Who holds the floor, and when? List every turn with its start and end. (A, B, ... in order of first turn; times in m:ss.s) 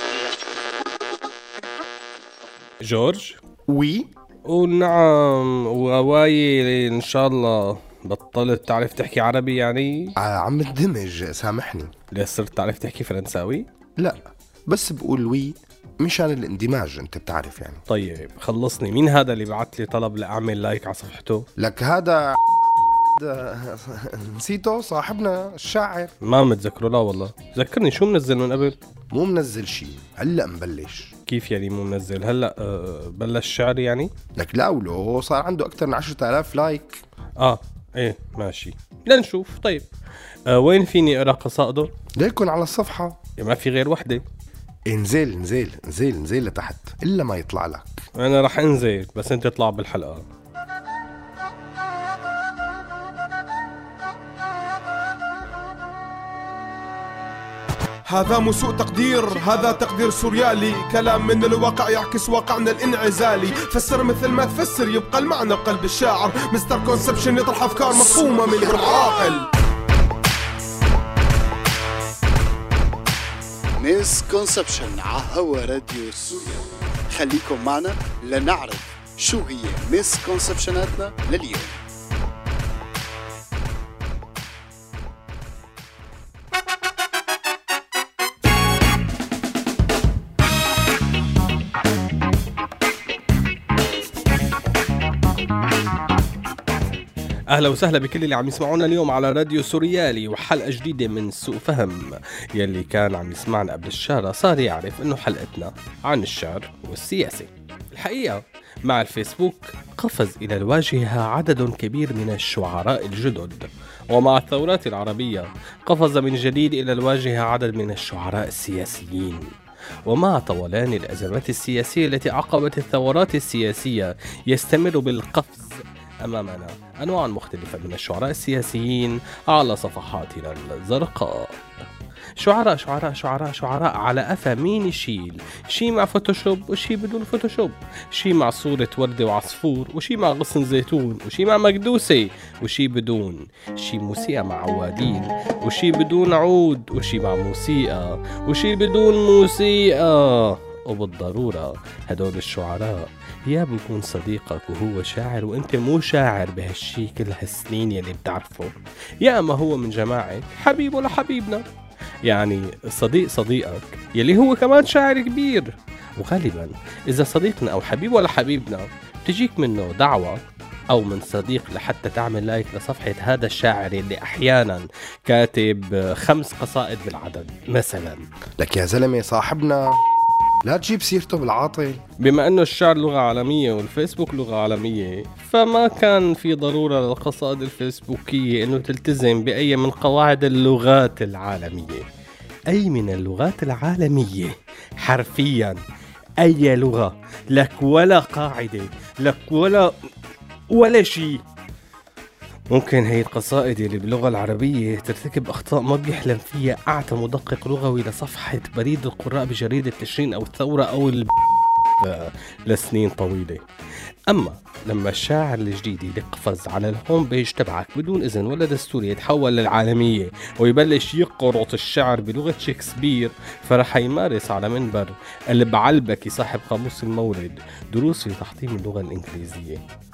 0:02.8-0:03.4 A
0:03.7-0:04.1 B
0:04.5-0:10.1 A
0:10.2-0:11.9 B
0:12.1-0:13.7 A
0:14.0-0:17.8 B
0:17.9-0:21.5 A
0:21.6-0:22.2 B
0:23.2-0:26.1 B
0:26.2-0:28.8 A
0:29.1-0:31.1 B
0:31.3-0:34.1 A
0:34.4-0:37.0 B
0:37.4-0:39.9 A
0:40.5-0:41.9 A
0:42.2-0:43.2 B
0:43.4-0:44.2 A
0:44.9-0:48.0 B
0:48.2-0:50.2 A
0:58.1-1:09.5 C
1:13.8-1:21.8 D
1:37.5-1:59.5 A
2:00.1-2:11.6 A
2:12.4-2:41.6 A
2:42.2-2:58.3 A
2:58.6-3:00.0 B
3:00.6-3:02.0 B
3:02.2-3:12.0 A
3:12.7-3:15.8 A
3:16.4-3:19.9 A
3:20.7-3:21.4 A
3:22.7-3:31.3 A
3:32.0-3:33.6 A
3:34.3-3:49.8 A